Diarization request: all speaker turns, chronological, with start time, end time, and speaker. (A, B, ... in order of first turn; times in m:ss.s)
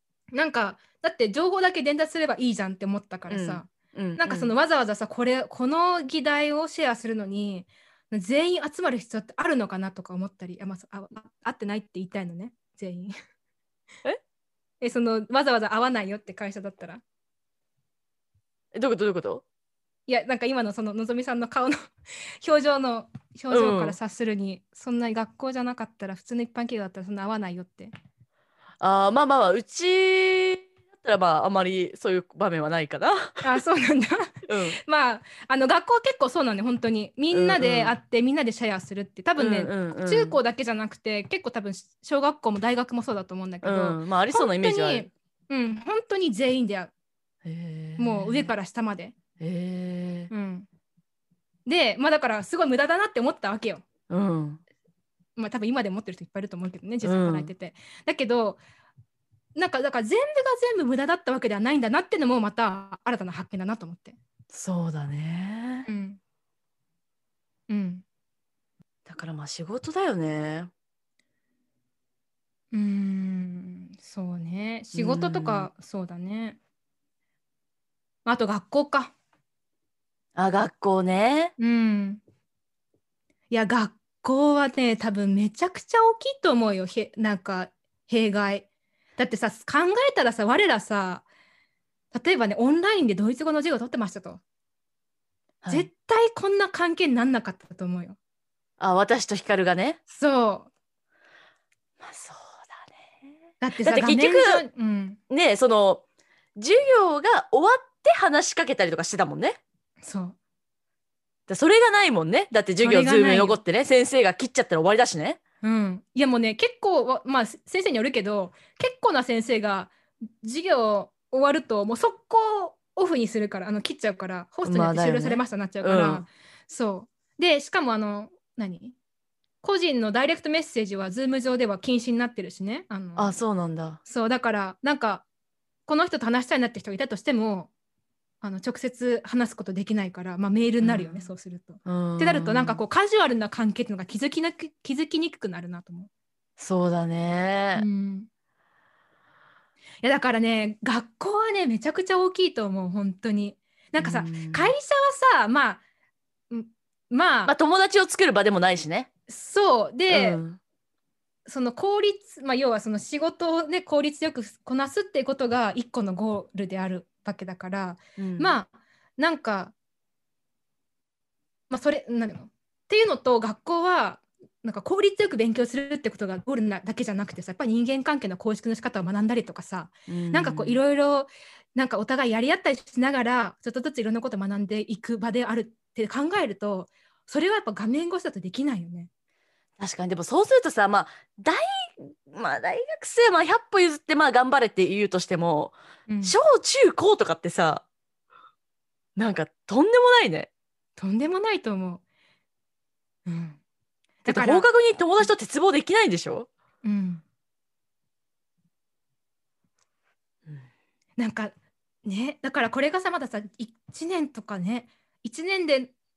0:00.3-0:13.1 A
0:03.3-0:04.5 B
0:14.8-0:17.0 A
0:18.7-0:19.4 B
0:20.1-0:21.9 A
0:22.4-0:27.9 A
0:23.5-0:24.0 B
0:28.8-0:33.6 B
0:33.4-0:46.9 A
0:34.5-0:34.8 B
0:37.3-0:37.9 B
0:39.4-0:40.4 B
0:43.6-0:45.1 B
0:47.4-0:48.5 B
0:48.0-0:49.2 A
0:49.4-0:50.3 B
0:50.3-0:50.7 A
0:51.7-0:53.8 A
0:54.1-0:54.6 B
0:55.4-0:58.6 A
0:57.0-0:57.5 B
0:59.6-1:04.2 A
1:04.5-1:05.9 B
1:05.9-1:06.2 A
1:07.7-1:08.0 A
1:09.1-1:10.7 B
1:12.7-1:16.6 A
1:14.9-1:15.7 B
1:18.2-1:19.1 A
1:20.4-1:21.5 B
1:21.6-1:22.2 A
1:23.5-1:31.2 A
1:32.1-1:34.4 A
1:35.6-1:35.9 B
1:35.7-1:38.2 A
1:38.8-1:40.0 B
1:40.1-1:40.7 A
1:42.0-1:43.0 B
1:43.6-1:45.2 A
1:43.8-1:44.6 B
1:45.3-1:46.0 B
1:46.6-1:49.6 B
1:50.0-1:50.4 A
1:51.5-1:55.4 B
1:52.8-1:53.6 A
1:55.6-2:09.0 A
2:04.6-2:06.3 B
2:09.6-2:13.4 A
2:13.2-2:14.0 B
2:14.0-2:15.2 A
2:15.9-2:17.7 A
2:18.4-2:26.1 A
2:20.8-2:21.3 B
2:21.8-2:22.8 B
2:26.6-2:27.9 B
2:27.8-2:28.3 A
2:30.0-2:35.8 A
2:34.0-2:34.7 B
2:36.5-2:37.5 A
2:37.5-2:39.1 B
2:39.3-2:40.4 A
2:40.1-2:40.6 B
2:41.5-2:49.7 A
2:48.2-2:48.6 B
2:51.7-3:09.1 A
3:00.1-3:00.8 B
3:09.8-3:17.8 B
3:16.1-3:16.4 A
3:19.2-3:20.5 B
3:21.0-3:22.0 A
3:23.3-3:23.6 A
3:24.2-3:24.7 A
3:24.3-3:26.5 B
3:26.8-3:27.2 A
3:31.2-3:31.5 A
3:32.0-3:35.9 A